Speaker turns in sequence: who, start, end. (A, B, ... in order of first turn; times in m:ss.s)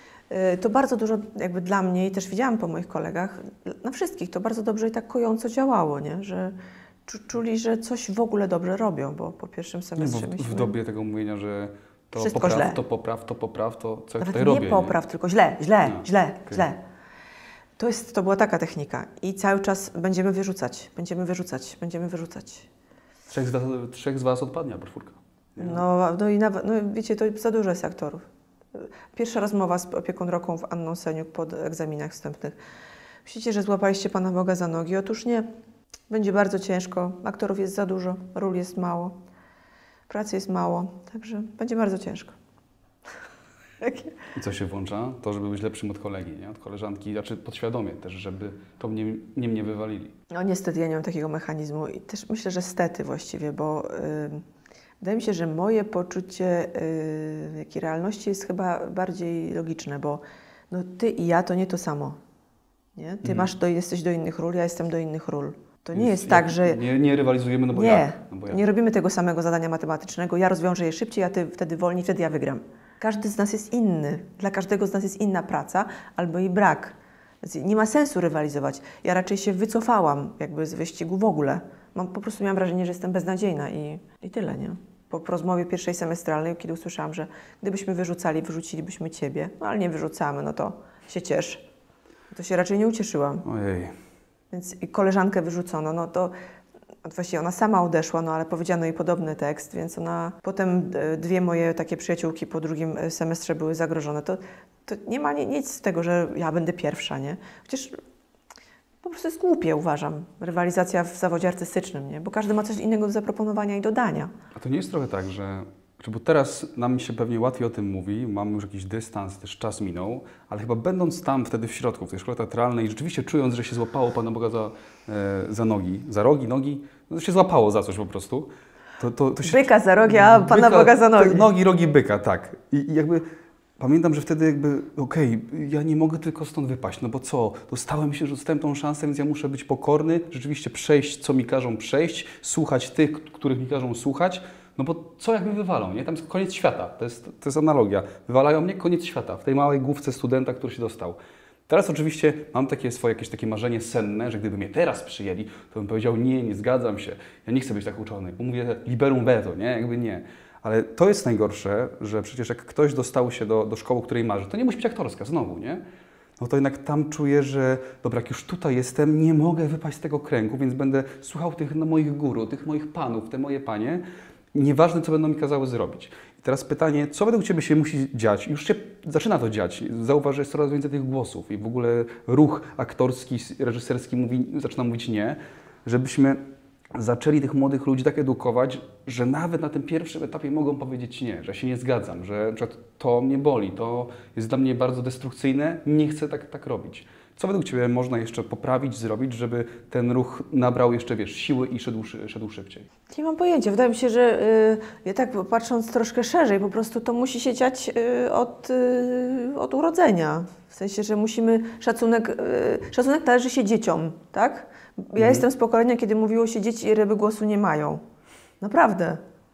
0:00.3-0:10.7 A
0:10.0-0:14.9 B
0:12.1-0:12.8 A
0:14.2-0:16.8 A
0:15.8-0:16.7 B
0:17.8-0:22.7 A
0:23.3-0:25.8 B
0:25.6-0:28.2 A
0:28.7-0:32.6 A
0:33.2-0:35.4 A
0:36.1-0:39.1 A
0:40.1-0:42.3 A
0:43.8-0:44.1 A
0:44.3-0:50.1 B
0:50.3-0:54.4 A
0:55.0-1:02.2 A
1:03.0-1:06.8 A
1:05.9-1:08.6 B
1:07.7-1:31.6 A
1:32.3-1:33.4 A
1:33.4-1:33.9 B
1:34.5-1:36.3 A
1:37.0-1:48.0 A
1:49.0-1:54.3 A
1:54.5-2:13.2 B
2:09.4-2:11.5 A
2:13.8-2:31.2 B
2:31.7-2:45.8 B
2:46.4-2:54.0 B
2:54.5-3:06.4 B
3:06.9-3:22.9 B
3:23.1-3:38.0 A
3:35.2-3:35.4 B
3:38.6-3:39.2 A